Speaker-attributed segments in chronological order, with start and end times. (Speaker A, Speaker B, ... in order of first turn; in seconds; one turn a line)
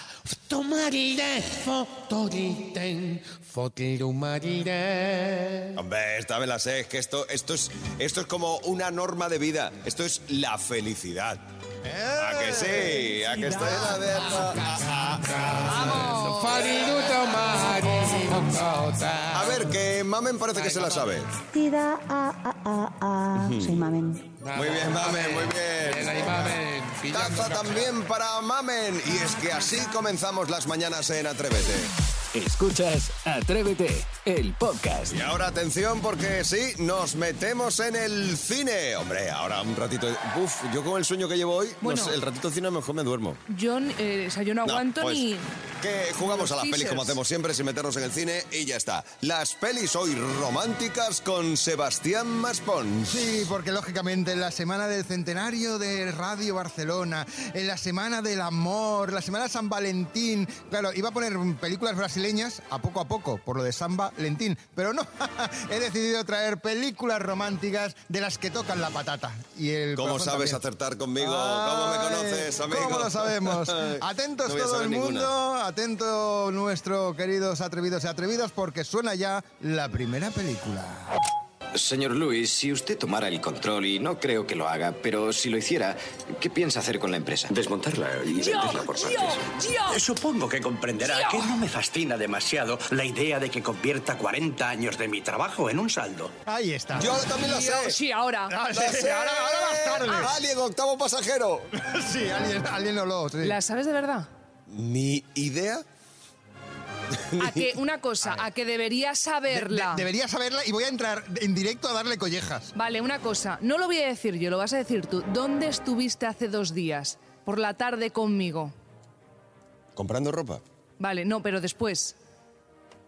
Speaker A: 0.3-5.7
Speaker B: 5.8-11.4
Speaker C: 11.8-14.0
Speaker B: 12.2-15.1
Speaker D: 15.7-16.6
Speaker A: 16.2-19.6
Speaker B: 19.3-21.3
Speaker E: 21.5-24.3
Speaker B: 23.4-23.8
Speaker A: 24.4-27.9
Speaker B: 24.5-31.9
Speaker F: 32.3-35.2
Speaker B: 35.1-43.4
Speaker D: 41.8-42.1
Speaker D: 43.5-45.5
Speaker B: 44.6-45.2
Speaker B: 45.8-53.5
Speaker D: 46.2-47.2
Speaker C: 53.1-70.6
Speaker B: 70.0-75.3
Speaker C: 71.2-81.1
Speaker G: 81.7-89.5
Speaker D: 88.3-90.0
Speaker H: 89.9-96.3
Speaker D: 91.0-91.5
Speaker C: 96.5-97.2
Speaker B: 97.0-98.0
Speaker D: 97.4-98.6
Speaker C: 98.5-100.3
Speaker B: 98.7-101.7
Speaker C: 101.8-103.6
Speaker D: 103.4-104.3
Speaker B: 104.7-105.8
Speaker B: 107.3-107.7
Speaker D: 107.4-110.1
Speaker C: 109.5-112.7
Speaker D: 112.8-118.7
Speaker B: 120.0-120.6
Speaker D: 121.0-122.2